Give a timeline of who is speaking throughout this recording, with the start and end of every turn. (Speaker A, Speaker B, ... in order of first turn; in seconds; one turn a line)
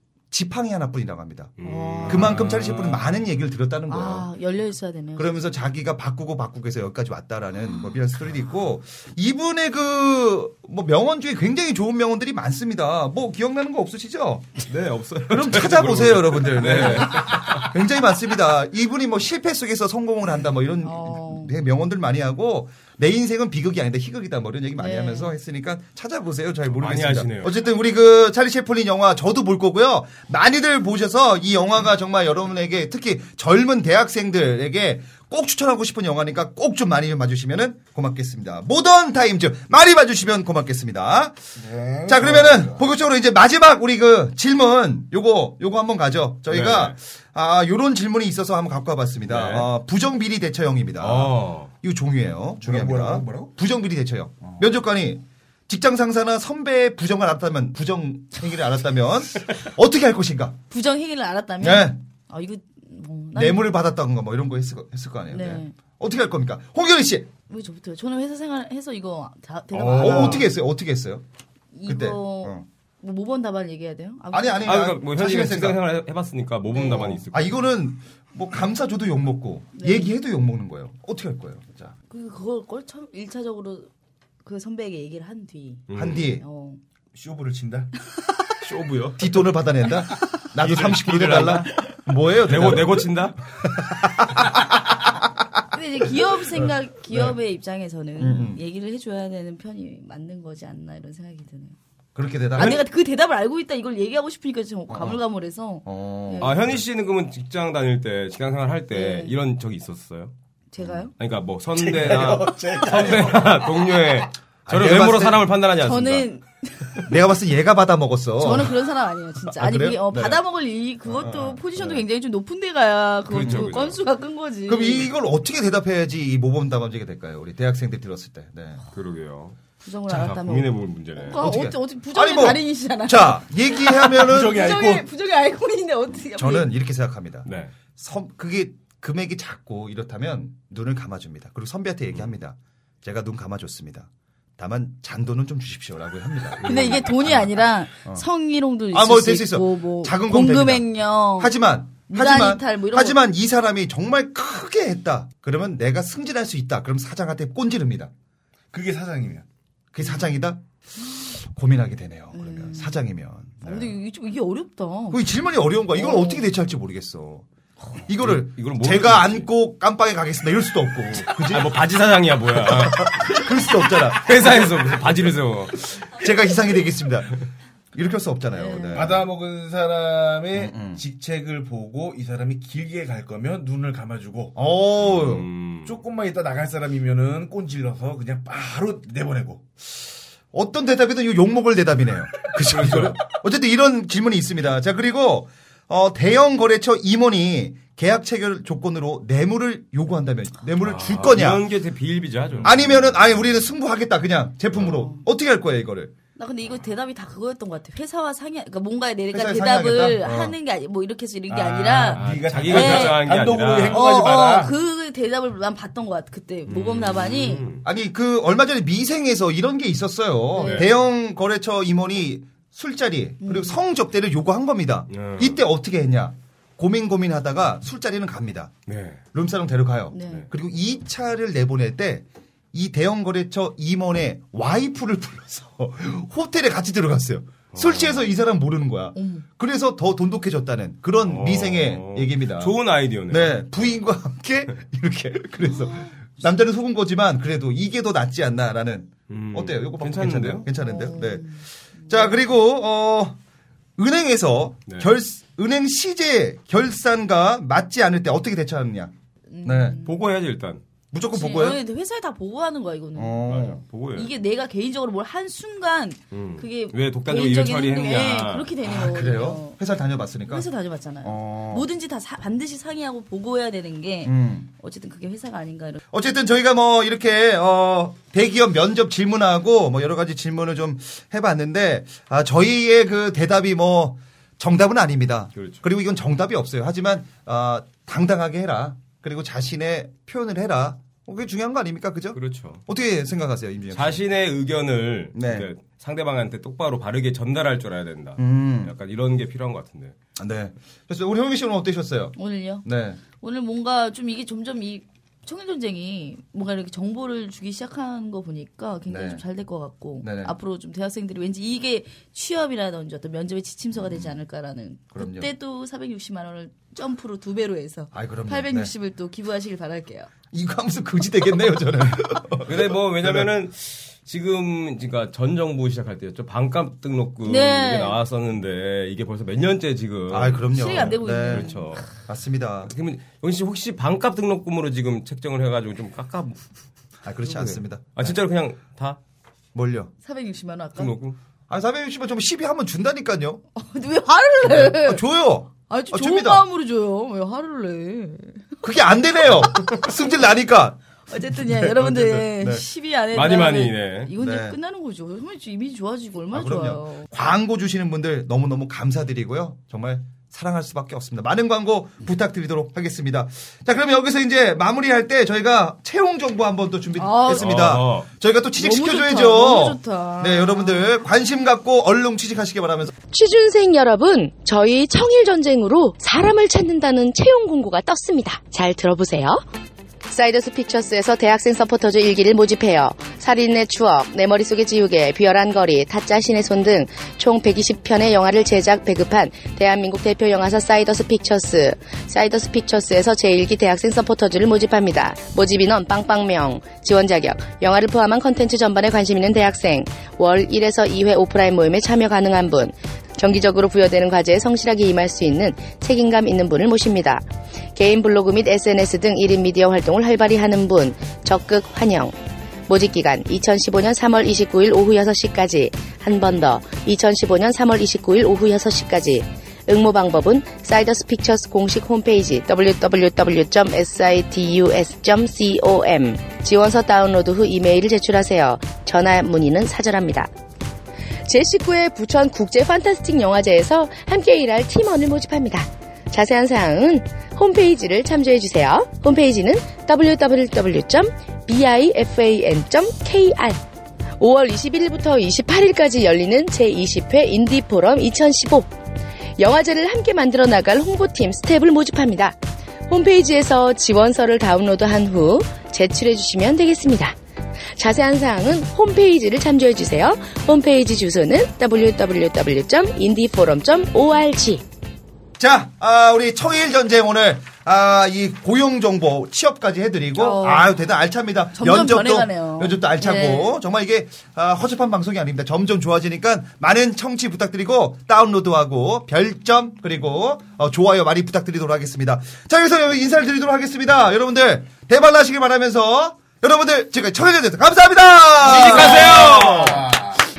Speaker A: 0.3-4.3
Speaker B: 1.6-3.1
Speaker C: 1.6-2.3
Speaker C: 3.9-5.4
Speaker A: 5.2-14.5
Speaker B: 14.7-17.6
Speaker A: 15.2-41.4
Speaker C: 20.8-21.5
Speaker C: 24.8-25.3
Speaker B: 26.7-27.5
Speaker D: 41.5-42.8
Speaker A: 42.1-60.6
Speaker B: 46.5-47.0
Speaker B: 49.3-49.7
Speaker B: 51.0-51.7
Speaker D: 52.6-53.5
Speaker C: 60.7-63.7
Speaker A: 61.6-62.0
Speaker A: 63.3-67.3
Speaker C: 65.3-65.7
Speaker C: 67.5-70.5
Speaker D: 69.7-70.5
Speaker A: 69.9-71.2
Speaker C: 71.7-74.8
Speaker A: 71.8-72.6
Speaker A: 74.3-75.8
Speaker B: 74.6-77.5
Speaker C: 76.7-77.2
Speaker A: 76.8-81.9
Speaker C: 79.8-80.1
Speaker C: 82.1-83.9
Speaker C: 84.4-85.8
Speaker B: 85.9-86.3
Speaker A: 85.9-86.4
Speaker C: 86.4-86.8
Speaker D: 87.1-87.9
Speaker B: 88.6-89.2
Speaker A: 89.1-94.7
Speaker B: 90.6-93.3
Speaker C: 95.7-101.7
Speaker A: 96.5-97.3
Speaker A: 98.2-98.6
Speaker A: 102.2-102.8
Speaker C: 102.5-106.5
Speaker A: 104.9-105.2
Speaker A: 105.8-106.8
Speaker B: 106.4-110.3
Speaker C: 108.9-109.3
Speaker C: 110.7-111.1
Speaker B: 111.2-116.3
Speaker D: 111.8-114.1
Speaker A: 114.7-115.5
Speaker C: 115.8-117.1
Speaker A: 117.0-118.8
Speaker C: 118.4-125.1
Speaker A: 119.5-120.4
Speaker A: 121.1-122.0
Speaker B: 123.3-124.0
Speaker A: 123.3-123.8
Speaker A: 124.7-128.8
Speaker B: 128.9-131.4
Speaker C: 129.8-136.7
Speaker A: 131.4-134.7
Speaker D: 134.2-135.1
Speaker A: 136.3-147.5
Speaker B: 137.4-137.7
Speaker B: 146.6-147.3
Speaker C: 146.6-151.5
Speaker A: 148.9-158.1
Speaker C: 152.1-153.2
Speaker D: 158.7-159.4
Speaker A: 159.9-163.9
Speaker C: 162.3-163.0
Speaker C: 163.6-165.2
Speaker A: 165.1-167.5
Speaker C: 165.9-166.4
Speaker A: 168.1-171.8
Speaker B: 168.2-169.5
Speaker B: 171.3-173.4
Speaker A: 172.5-174.9
Speaker B: 174.1-175.9
Speaker A: 176.0-177.4
Speaker A: 177.9-179.2
Speaker C: 178.6-179.2
Speaker D: 178.9-184.5
Speaker A: 180.5-181.0
Speaker A: 184.6-185.5
Speaker B: 185.0-186.0
Speaker D: 185.8-189.6
Speaker A: 190.5-201.6
Speaker B: 192.6-193.2
Speaker B: 200.8-203.3
Speaker A: 202.6-206.1
Speaker C: 204.9-205.2
Speaker C: 206.3-213.3
Speaker A: 209.3-210.5
Speaker D: 211.5-214.7
Speaker B: 212.1-214.0
Speaker C: 213.9-217.6
Speaker B: 216.7-217.8
Speaker A: 217.8-228.7
Speaker C: 220.5-220.9
Speaker B: 220.6-220.9
Speaker C: 223.4-223.8
Speaker B: 225.1-225.6
Speaker B: 228.9-229.2
Speaker A: 229.3-242.8
Speaker C: 230.1-230.4
Speaker B: 237.7-238.3
Speaker C: 239.1-239.4
Speaker B: 241.2-243.6
Speaker A: 243.3-253.4
Speaker B: 249.3-250.7
Speaker C: 250.8-252.4
Speaker A: 254.0-259.1
Speaker B: 254.9-255.1
Speaker C: 259.5-260.1
Speaker A: 259.6-260.0
Speaker B: 260.0-260.8
Speaker A: 261.1-261.8
Speaker C: 261.3-263.5
Speaker A: 263.1-263.8
Speaker B: 263.5-264.3
Speaker C: 264.1-269.8
Speaker B: 266.3-268.7
Speaker A: 268.8-270.7
Speaker C: 270.5-276.0
Speaker A: 271.2-271.9
Speaker A: 274.2-274.7
Speaker A: 276.1-294.2
Speaker B: 285.6-285.8
Speaker B: 292.3-292.8
Speaker B: 293.9-300.1
Speaker A: 295.3-295.7
Speaker A: 298.4-298.9
Speaker A: 300.4-303.2
Speaker C: 302.4-302.8
Speaker C: 303.4-320.3
Speaker A: 309.1-309.4
Speaker A: 310.2-310.5
Speaker A: 314.0-314.3
Speaker A: 315.1-315.5
Speaker A: 318.1-318.9
Speaker A: 320.5-323.5
Speaker B: 322.6-332.1
Speaker C: 327.4-328.2
Speaker A: 330.3-332.9
Speaker C: 330.7-331.8
Speaker B: 332.9-336.6
Speaker A: 337.2-338.4
Speaker B: 337.4-339.2
Speaker A: 339.7-340.1
Speaker C: 340.2-341.1
Speaker B: 340.9-341.4
Speaker A: 341.7-343.6
Speaker C: 343.7-345.2
Speaker A: 344.6-346.6
Speaker C: 345.9-348.7
Speaker A: 348.8-352.8
Speaker C: 351.3-357.3
Speaker B: 353.3-354.3
Speaker A: 354.4-354.8
Speaker A: 356.5-373.1
Speaker C: 367.2-367.7
Speaker B: 367.6-368.3
Speaker C: 368.8-371.2
Speaker E: 373.3-379.6
Speaker E: 380.2-407.4
Speaker E: 407.9-412.3
Speaker E: 412.9-430.5
Speaker E: 431.4-443.8
Speaker E: 444.4-448.9
Speaker E: 449.6-457.4
Speaker E: 457.9-464.8
Speaker A: 465.6-489.6
Speaker C: 470.4-470.9
Speaker C: 471.7-473.7
Speaker B: 488.6-490.1
Speaker D: 488.6-490.4